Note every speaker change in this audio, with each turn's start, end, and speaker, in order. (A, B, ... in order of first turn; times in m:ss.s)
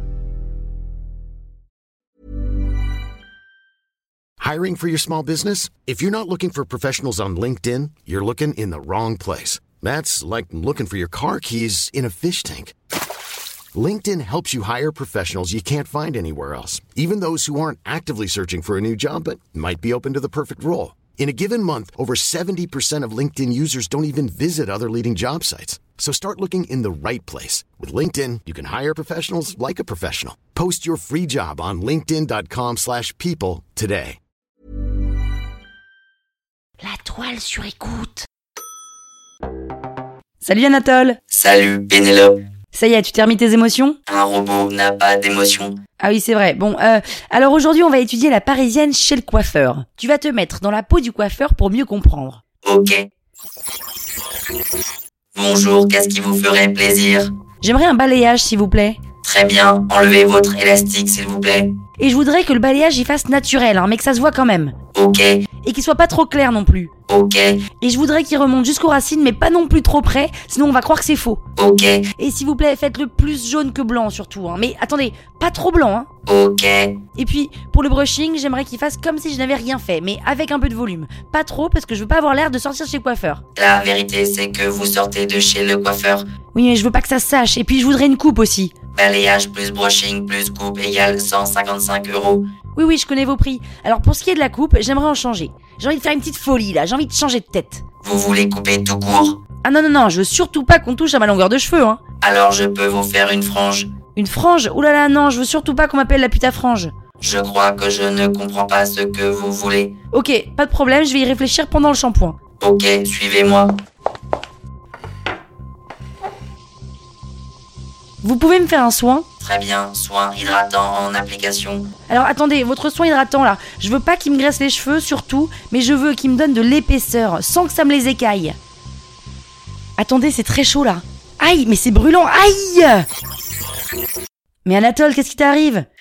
0:04.4-0:12.7 A
0:13.7-0:34.2 A
0:36.8-0:38.3 B
0:40.4-0:41.2 B
0:41.3-0:42.4 C
0:42.7-0:44.0 B
0:44.1-0:45.8 C
0:46.0-0:52.4 B
0:52.6-0:53.0 C
0:55.3-0:57.3 C
0:57.6-0:59.0 B
0:59.2-1:01.7 C
1:02.0-1:04.8 B
1:04.9-1:05.4 C
1:05.6-1:06.9 B
1:07.1-1:07.6 C
1:07.8-1:11.4 B
1:11.6-1:12.1 C
1:12.2-1:16.1 B
1:16.3-1:17.0 C
1:17.2-1:23.4 B
1:23.6-1:26.2 C
1:26.5-1:28.7 B
1:28.9-1:32.5 C
1:32.7-1:37.8 B
1:38.0-1:39.4 C
1:39.6-1:42.0 B
1:42.2-1:43.9 C
1:44.1-1:46.9 B
1:47.2-1:49.9 C
1:50.1-1:52.4 B
1:52.6-1:53.7 C
1:58.2-1:59.3 B
1:59.4-2:01.9 C
2:02.1-2:08.6 B
2:10.0-2:13.0 B
2:14.6-2:15.8 B